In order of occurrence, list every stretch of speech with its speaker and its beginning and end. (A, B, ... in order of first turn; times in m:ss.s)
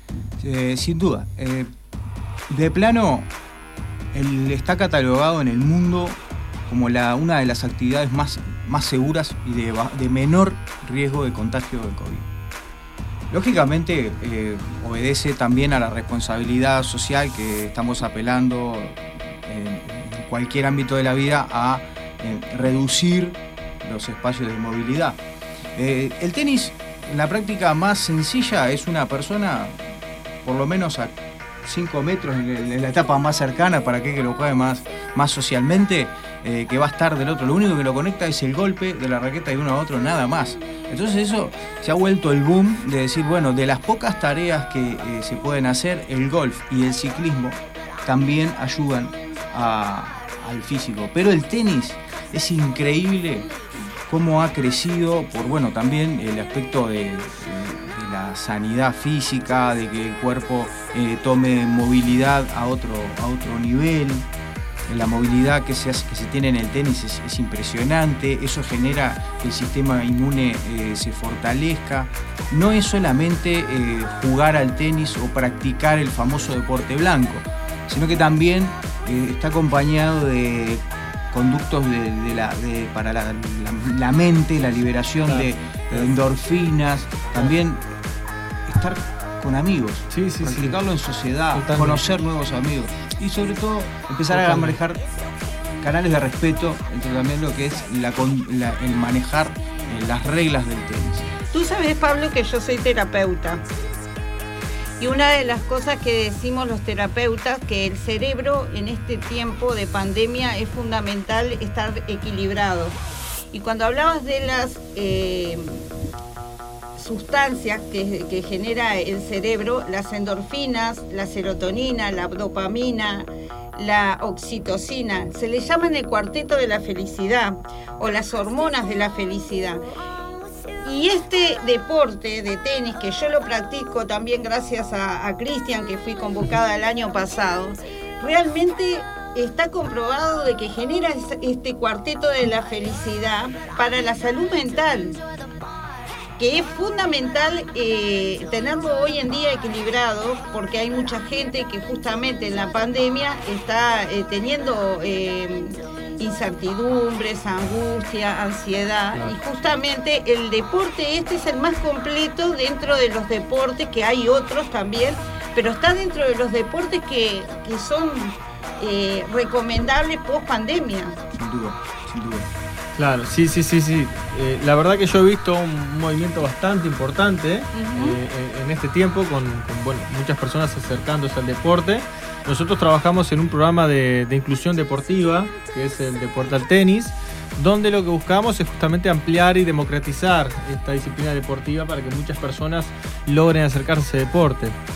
0:00.4-0:01.7 A
0:02.5-0:03.3 A
0:04.1-0:12.3 A
0:13.3-0:25.2 A
0:25.8-0:29.8 A
0:30.4-0:53.5 A
0:54.1-1:04.3 A
1:04.9-1:28.0 A
1:25.2-1:26.1 B
1:28.6-1:35.0 A
1:30.1-1:30.8 B
1:31.5-1:32.2 B
1:34.3-1:34.8 B
1:35.8-1:41.3 A
1:41.5-1:43.6 C
1:45.0-1:53.0 C
1:53.5-1:55.8 C
1:57.0-2:09.8 C
2:10.8-2:25.2 C
2:26.4-2:51.2 C
2:51.3-2:52.5 A
2:52.9-3:14.8 B
2:57.7-2:58.2 C